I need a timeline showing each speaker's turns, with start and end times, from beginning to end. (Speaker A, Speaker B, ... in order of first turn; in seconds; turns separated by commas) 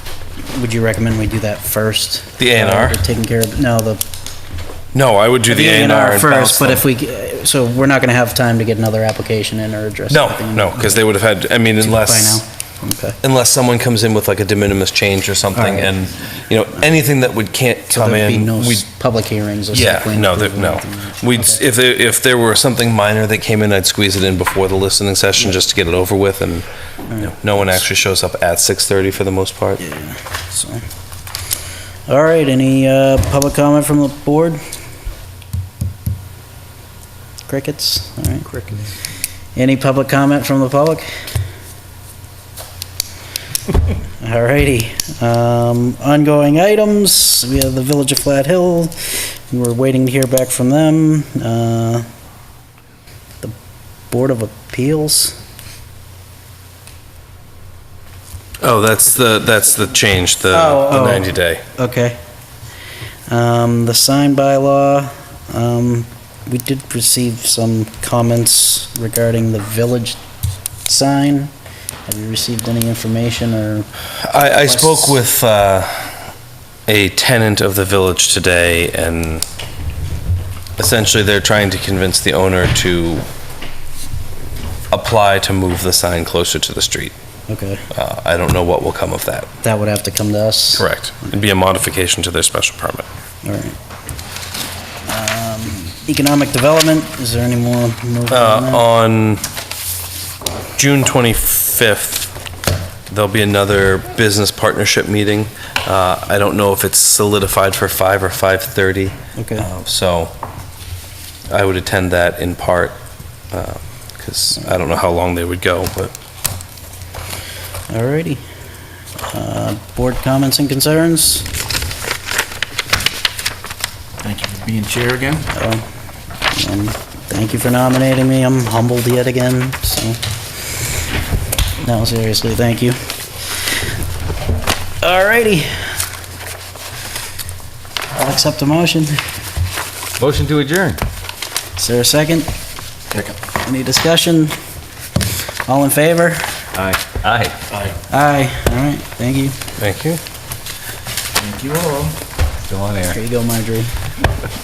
Speaker A: 0.5-4.0, Speaker B: 2.4-3.0, Speaker B: 4.9-6.8, Speaker A: 5.5-11.0, Speaker B: 10.1-12.4, Speaker A: 11.8-13.2, Speaker B: 13.2-18.9, Speaker A: 15.5-16.2, Speaker A: 17.9-21.6, Speaker B: 19.7-26.7, Speaker A: 27.1-27.5, Speaker B: 27.2-29.8, Speaker A: 29.8-30.8, Speaker A: 32.1-34.6, Speaker A: 37.5-38.7, Speaker A: 39.6-41.1, Speaker A: 44.2-52.0, Speaker A: 54.1-55.4, Speaker B: 58.6-61.6, Speaker A: 60.5-62.2, Speaker A: 63.3-70.2, Speaker A: 70.9-71.5, Speaker A: 72.1-73.9, Speaker B: 74.2-76.1, Speaker A: 74.6-75.2, Speaker B: 76.9-79.5, Speaker B: 80.8-83.2, Speaker B: 84.9-87.1, Speaker A: 87.5-87.8, Speaker B: 87.9-89.5, Speaker A: 89.6-90.9, Speaker B: 90.8-93.1, Speaker A: 93.4-93.8, Speaker A: 95.1-98.8, Speaker B: 98.3-99.4, Speaker B: 100.8-102.4, Speaker B: 103.1-110.3, Speaker A: 109.3-109.7, Speaker B: 111.5-113.0, Speaker B: 113.5-116.1, Speaker A: 117.9-118.4, Speaker A: 119.3-121.5, Speaker C: 124.2-125.5, Speaker A: 125.5-125.8, Speaker A: 126.5-130.2, Speaker A: 131.8-133.0, Speaker A: 135.0-136.0, Speaker A: 138.1-139.2, Speaker D: 140.2-141.0, Speaker A: 141.8-142.5, Speaker A: 143.5-144.6, Speaker A: 145.7-146.6, Speaker D: 146.8-147.6, Speaker A: 148.1-149.6, Speaker B: 149.8-150.2, Speaker C: 151.4-152.2, Speaker D: 152.7-153.2, Speaker A: 153.1-153.9